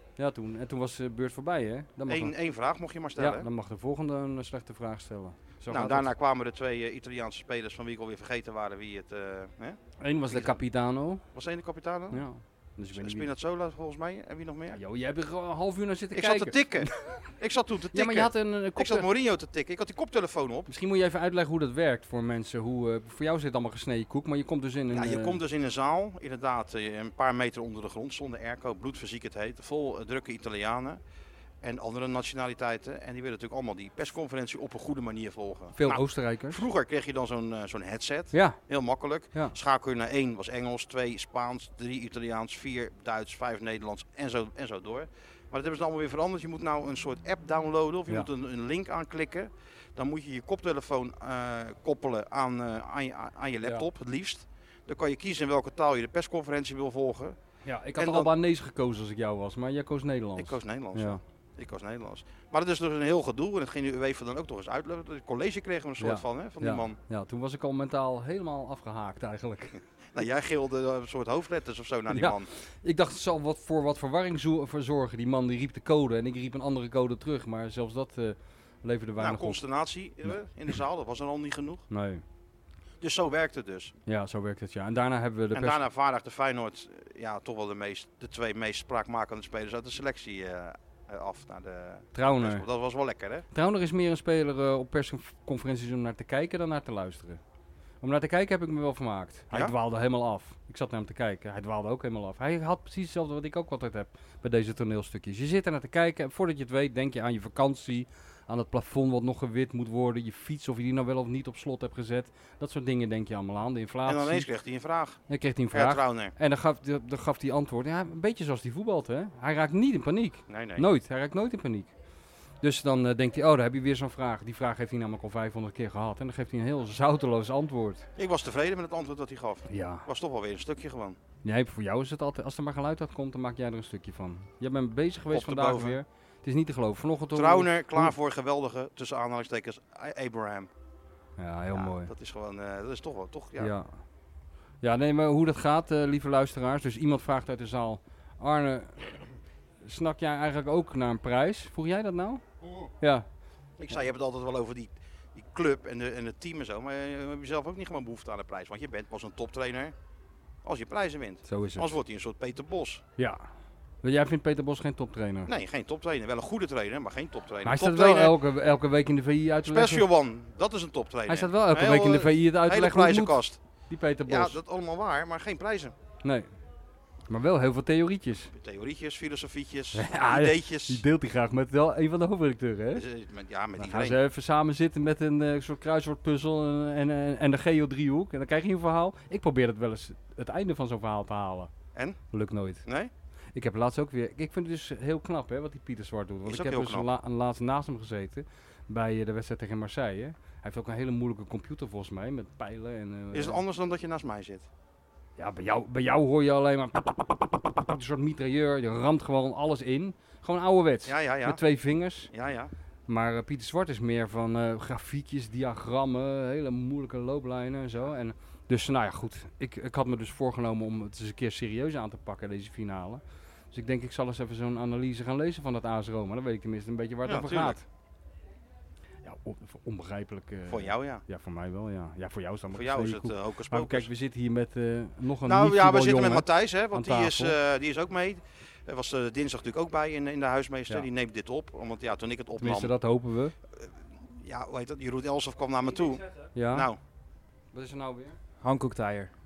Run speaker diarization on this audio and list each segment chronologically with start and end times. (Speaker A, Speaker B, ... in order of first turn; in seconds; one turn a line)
Speaker A: 0.2-2.3
Speaker B: 2.1-3.5
Speaker A: 3.1-6.1
Speaker B: 5.7-9.8
Speaker A: 10.0-11.2
Speaker B: 10.3-10.6
Speaker B: 11.3-12.2
Speaker A: 12.1-13.3
Speaker B: 12.9-14.8
Speaker A: 14.7-17.2
Speaker B: 16.1-16.9
Speaker B: 17.4-20.7
Speaker A: 17.9-19.1
Speaker A: 20.7-25.4
Speaker B: 24.9-31.0
Speaker B: 31.6-57.4
Speaker A: 35.8-36.6
Speaker A: 38.3-38.6
Speaker A: 57.6-61.2
Speaker B: 58.0-58.3
Speaker B: 60.4-67.0
Speaker A: 66.0-69.8
Speaker B: 70.1-72.5
Speaker A: 72.1-79.6
Speaker B: 79.2-81.8
Speaker A: 81.9-82.2
Speaker B: 83.0-83.9
Speaker A: 84.0-85.8
Speaker B: 85.5-93.5
Speaker A: 92.1-92.7
Speaker A: 93.5-97.4
Speaker A: 98.0-114.5
Speaker B: 114.0-115.2
Speaker A: 115.3-121.9
Speaker B: 115.7-116.3
Speaker B: 120.5-120.8
Speaker A: 122.6-128.1
Speaker B: 128.2-131.2
Speaker A: 129.7-130.1
Speaker A: 131.4-138.1
Speaker B: 135.3-136.0
Speaker B: 137.3-140.7
Speaker A: 141.4-142.1
Speaker B: 141.7-143.7
Speaker A: 143.6-143.9
Speaker A: 144.8-149.1
Speaker A: 149.8-152.4
Speaker A: 153.0-153.2
Speaker B: 153.8-159.9
Speaker B: 160.6-163.0
Speaker A: 161.4-161.9
Speaker A: 163.2-163.4
Speaker A: 164.0-165.5
Speaker B: 165.5-168.3
Speaker A: 167.6-170.1
Speaker B: 169.7-173.6
Speaker A: 171.3-174.6
Speaker B: 174.3-175.9
Speaker A: 177.3-178.5
Speaker B: 178.5-181.0
Speaker A: 179.9-183.0
Speaker B: 182.9-184.2
Speaker A: 183.8-191.7
Speaker A: 192.3-192.8
Speaker B: 192.8-193.1
Speaker A: 193.5-203.6
Speaker B: 196.4-197.1
Speaker B: 203.3-204.7
Speaker A: 205.4-212.3
Speaker B: 211.1-211.6
Speaker B: 212.3-212.7
Speaker A: 213.1-223.2
Speaker A: 223.7-227.8
Speaker B: 227.3-227.8
Speaker A: 229.2-237.6
Speaker B: 230.7-231.2
Speaker B: 232.7-234.1
Speaker B: 235.4-242.9
Speaker A: 242.6-243.5
Speaker B: 243.8-247.0
Speaker A: 246.5-246.9
Speaker A: 247.7-249.3